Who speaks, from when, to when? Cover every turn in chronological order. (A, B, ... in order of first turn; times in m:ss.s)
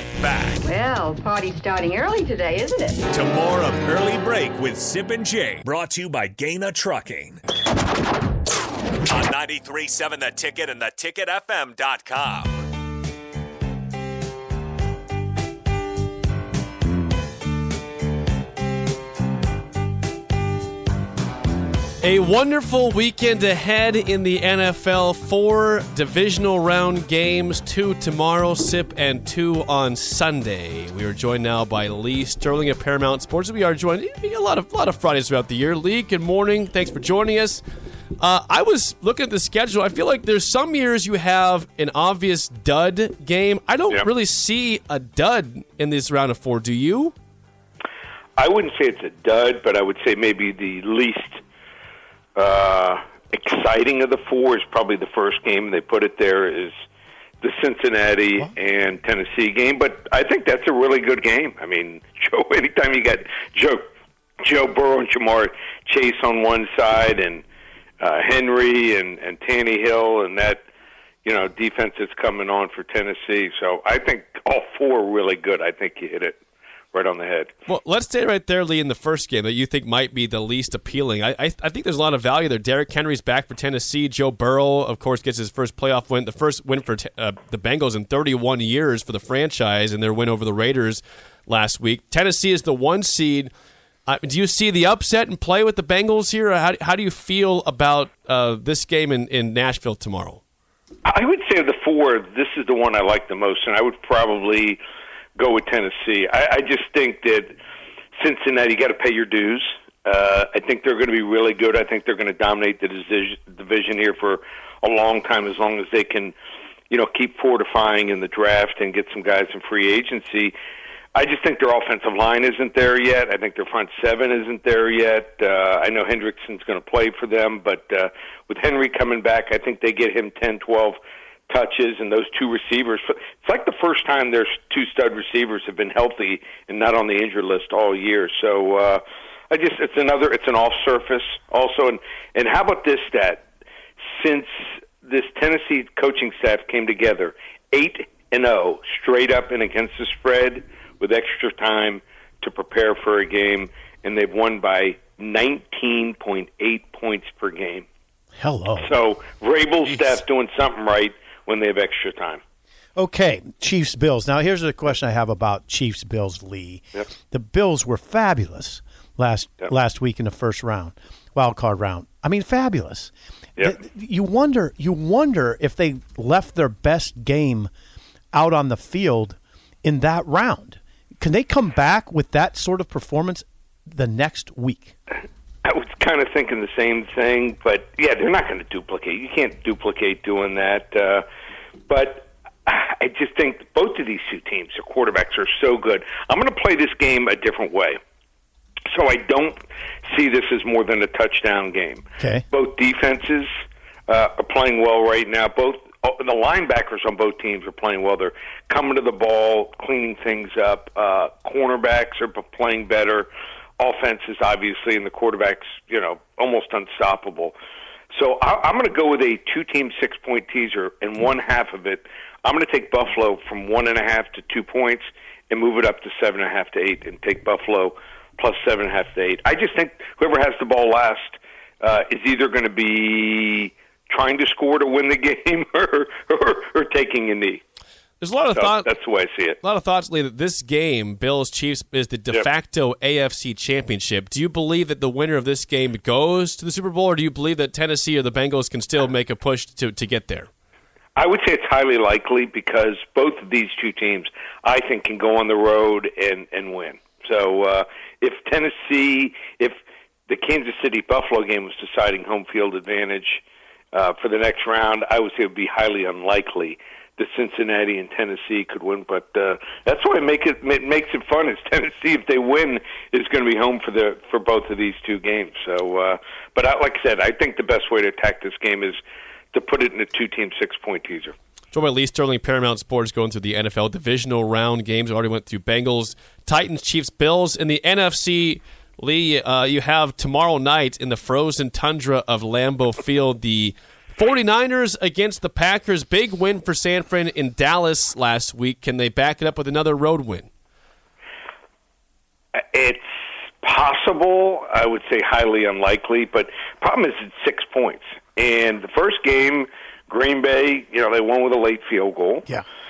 0:00.2-0:00.6 A
0:00.6-0:03.0 B
0:03.1-0:07.4 A
0:09.0-0:12.6 A
0:22.0-0:37.6 C
0:38.2-0:47.1 C
0:48.4-0:51.4 D
0:52.4-0:56.7 D
0:57.4-1:03.8 D
1:04.4-1:07.4 D
1:08.0-1:10.6 D
1:11.2-1:16.4 D
1:16.9-1:17.5 D
1:17.7-1:33.5 C
1:34.1-1:40.4 C
1:41.0-1:44.8 D
1:45.4-1:47.5 D
1:48.2-1:56.3 D
1:56.9-2:00.5 D
2:01.1-2:11.0 D
2:11.5-2:23.4 D
2:24.1-2:37.9 D
2:38.4-2:38.9 E
2:38.8-2:42.4 D
2:43.0-2:57.7 E
2:58.3-3:04.9 E
3:05.6-3:11.2 D
3:11.9-3:18.0 D
3:18.9-3:23.5 D
3:22.2-3:22.4 E
3:24.1-3:33.3 D
3:33.8-3:37.5 D
3:38.1-3:57.6 D
3:58.2-3:58.9 C
3:58.6-3:59.6 D
3:59.6-4:10.5 C
4:11.2-4:19.7 D
4:20.3-4:23.4 D
4:23.9-4:39.0 D
4:39.5-4:41.3 D
4:41.7-5:00.5 C
5:02.6-5:03.1 D
5:03.6-5:12.4 D